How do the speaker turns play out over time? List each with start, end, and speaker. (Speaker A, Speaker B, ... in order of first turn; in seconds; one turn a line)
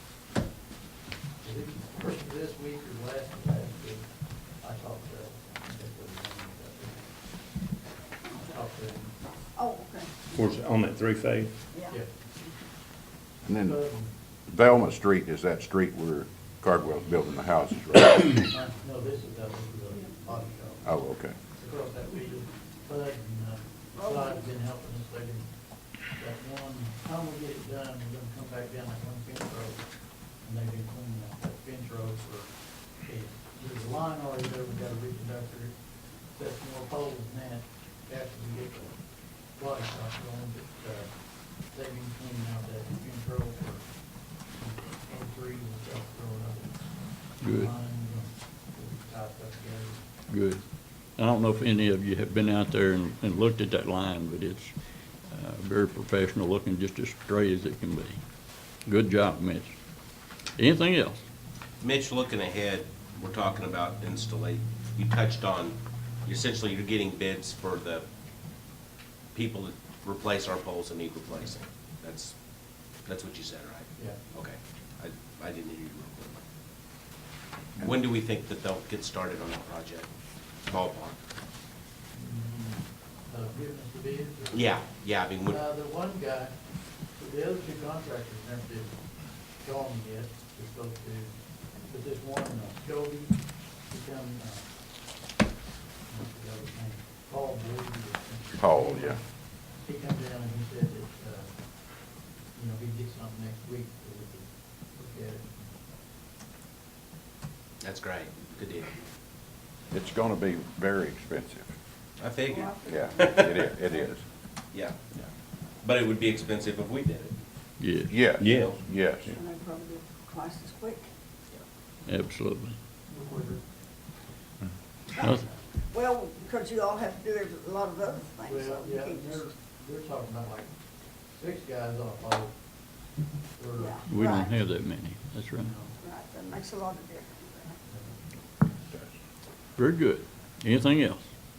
Speaker A: 1.4-4.1
Speaker A: 4.6-7.1
Speaker A: 8.3-9.1
Speaker B: 9.5-10.4
Speaker C: 10.3-11.5
Speaker D: 13.4-13.8
Speaker A: 13.6-14.1
Speaker D: 14.5-18.4
Speaker A: 18.3-20.9
Speaker D: 20.8-21.3
Speaker A: 21.6-25.5
Speaker B: 23.9-24.4
Speaker A: 26.1-29.8
Speaker A: 30.4-35.8
Speaker A: 36.3-39.0
Speaker A: 39.5-41.1
Speaker A: 41.6-43.9
Speaker A: 44.5-46.8
Speaker A: 47.4-50.0
Speaker E: 47.4-47.7
Speaker E: 50.3-50.6
Speaker E: 51.1-54.8
Speaker E: 55.3-58.2
Speaker E: 58.8-59.7
Speaker E: 60.5-61.2
Speaker F: 61.8-68.0
Speaker F: 69.3-72.4
Speaker F: 72.9-76.4
Speaker F: 77.8-80.1
Speaker F: 80.7-81.2
Speaker A: 82.1-84.7
Speaker F: 84.5-85.6
Speaker A: 85.5-86.5
Speaker A: 87.1-88.9
Speaker A: 89.6-91.3
Speaker A: 91.8-94.7
Speaker A: 96.1-99.2
Speaker D: 98.6-99.2
Speaker A: 99.7-101.5
Speaker A: 102.5-105.5
Speaker F: 107.8-108.9
Speaker D: 109.9-111.7
Speaker F: 112.2-113.7
Speaker B: 112.5-114.0
Speaker D: 112.8-114.2
Speaker F: 114.7-115.2
Speaker F: 115.8-117.3
Speaker E: 117.8-118.2
Speaker D: 118.1-119.3
Speaker C: 118.4-119.3
Speaker F: 118.4-118.8
Speaker B: 119.3-121.1
Speaker E: 122.0-122.8
Speaker A: 123.1-123.6
Speaker E: 125.2-125.5
Speaker B: 125.9-129.4
Speaker A: 128.4-130.7
Speaker A: 131.3-132.5
Speaker A: 133.6-134.0
Speaker B: 133.8-134.5
Speaker E: 134.1-135.7
Speaker A: 135.6-135.9
Speaker B: 136.0-137.8
Speaker E: 139.8-141.2